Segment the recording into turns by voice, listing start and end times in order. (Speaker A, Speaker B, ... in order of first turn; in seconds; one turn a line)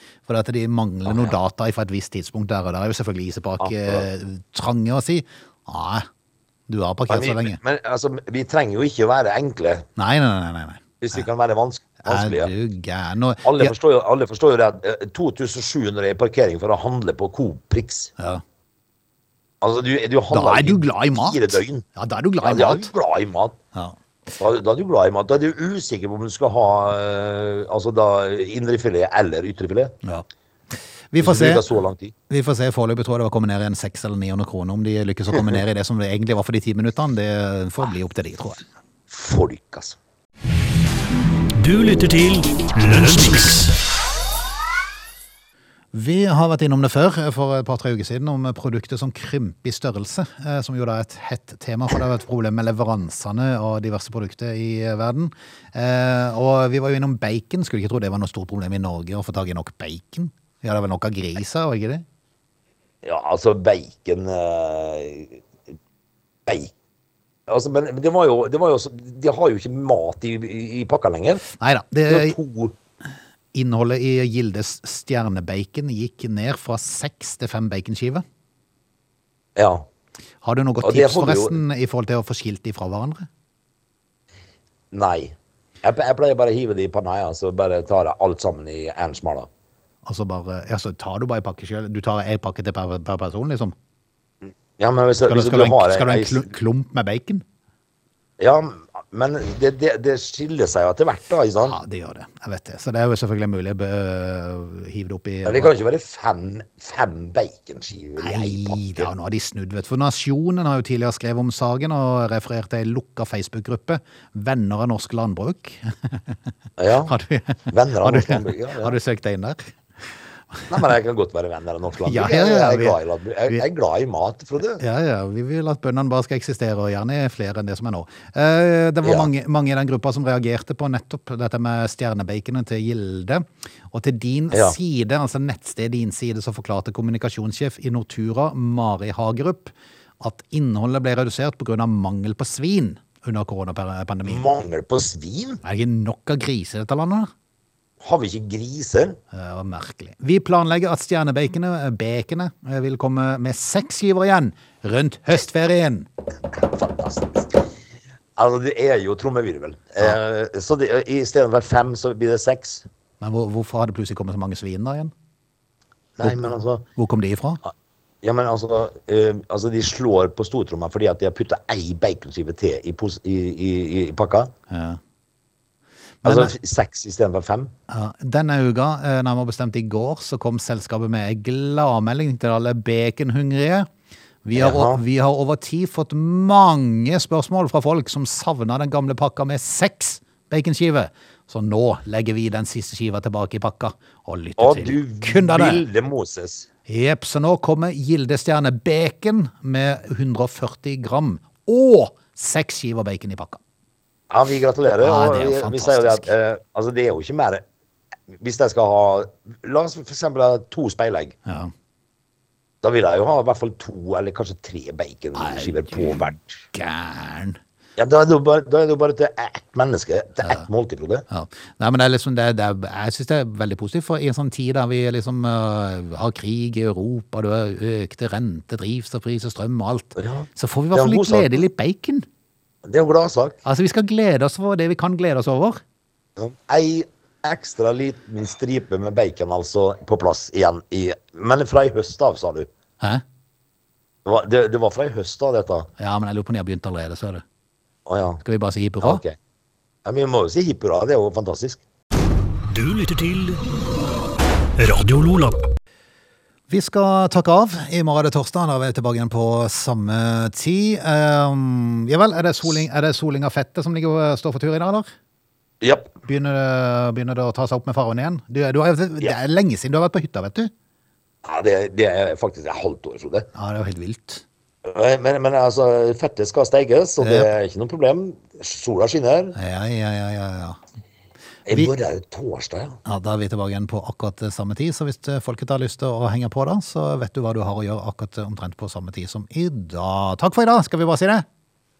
Speaker A: 0.3-6.1
Speaker B: 1.1-1.3
Speaker B: 3.6-4.0
Speaker A: 6.7-7.6
Speaker B: 7.1-9.8
Speaker A: 10.0-11.2
Speaker B: 11.0-12.5
Speaker A: 12.0-13.7
Speaker B: 13.4-18.1
Speaker B: 19.6-21.8
Speaker A: 20.3-22.9
Speaker B: 22.4-23.6
Speaker B: 24.4-29.9
Speaker A: 31.1-31.6
Speaker B: 31.2-32.1
Speaker A: 32.3-38.6
Speaker B: 39.1-40.0
Speaker C: 41.6-43.8
Speaker A: 45.9-62.0
Speaker B: 63.0-65.4
Speaker B: 66.5-66.7
Speaker B: 67.5-71.4
Speaker A: 71.6-72.3
Speaker B: 72.1-72.7
Speaker A: 73.5-78.2
Speaker B: 79.5-79.9
Speaker A: 80.4-83.3
Speaker B: 80.8-81.6
Speaker B: 84.9-89.5
Speaker A: 90.0-93.7
Speaker B: 94.8-96.5
Speaker A: 95.2-97.4
Speaker B: 98.4-101.8
Speaker A: 101.7-105.7
Speaker B: 105.4-109.1
Speaker A: 108.2-116.4
Speaker B: 116.8-117.1
Speaker A: 117.0-119.7
Speaker B: 117.7-119.0
Speaker A: 120.5-120.8
Speaker B: 120.7-124.8
Speaker A: 122.0-123.6
Speaker A: 124.8-144.5
Speaker B: 129.0-129.3
Speaker B: 144.2-145.6
Speaker A: 145.6-147.3
Speaker B: 148.0-149.2
Speaker A: 149.3-156.1
Speaker B: 156.5-157.6
Speaker B: 158.3-162.8
Speaker A: 163.2-165.1
Speaker B: 166.2-166.8
Speaker A: 167.0-167.6
Speaker B: 168.2-174.5
Speaker A: 174.7-175.0
Speaker A: 176.2-176.5
Speaker B: 176.2-177.7
Speaker A: 177.9-183.9
Speaker A: 184.4-195.8
Speaker B: 184.5-185.0
Speaker B: 194.6-196.7
Speaker A: 196.9-203.6
Speaker B: 204.3-207.6
Speaker A: 205.0-206.3
Speaker B: 208.3-211.3
Speaker A: 211.4-211.7
Speaker B: 212.8-216.6
Speaker A: 215.3-217.6
Speaker B: 218.0-221.2
Speaker A: 221.3-232.2
Speaker B: 230.2-231.6
Speaker B: 232.8-233.6
Speaker A: 233.6-235.8
Speaker B: 236.4-242.7
Speaker B: 244.2-245.9
Speaker A: 246.0-247.4
Speaker B: 248.1-248.4
Speaker A: 248.4-249.2
Speaker B: 249.0-249.4
Speaker B: 250.0-251.8
Speaker C: 252.7-253.6
Speaker C: 254.8-255.6
Speaker A: 256.7-265.1
Speaker B: 265.8-266.1
Speaker A: 266.2-270.7
Speaker B: 271.4-273.5
Speaker A: 273.5-274.4
Speaker B: 274.8-279.6
Speaker A: 277.2-277.5
Speaker A: 279.5-280.8
Speaker B: 281.6-283.0
Speaker A: 283.0-291.4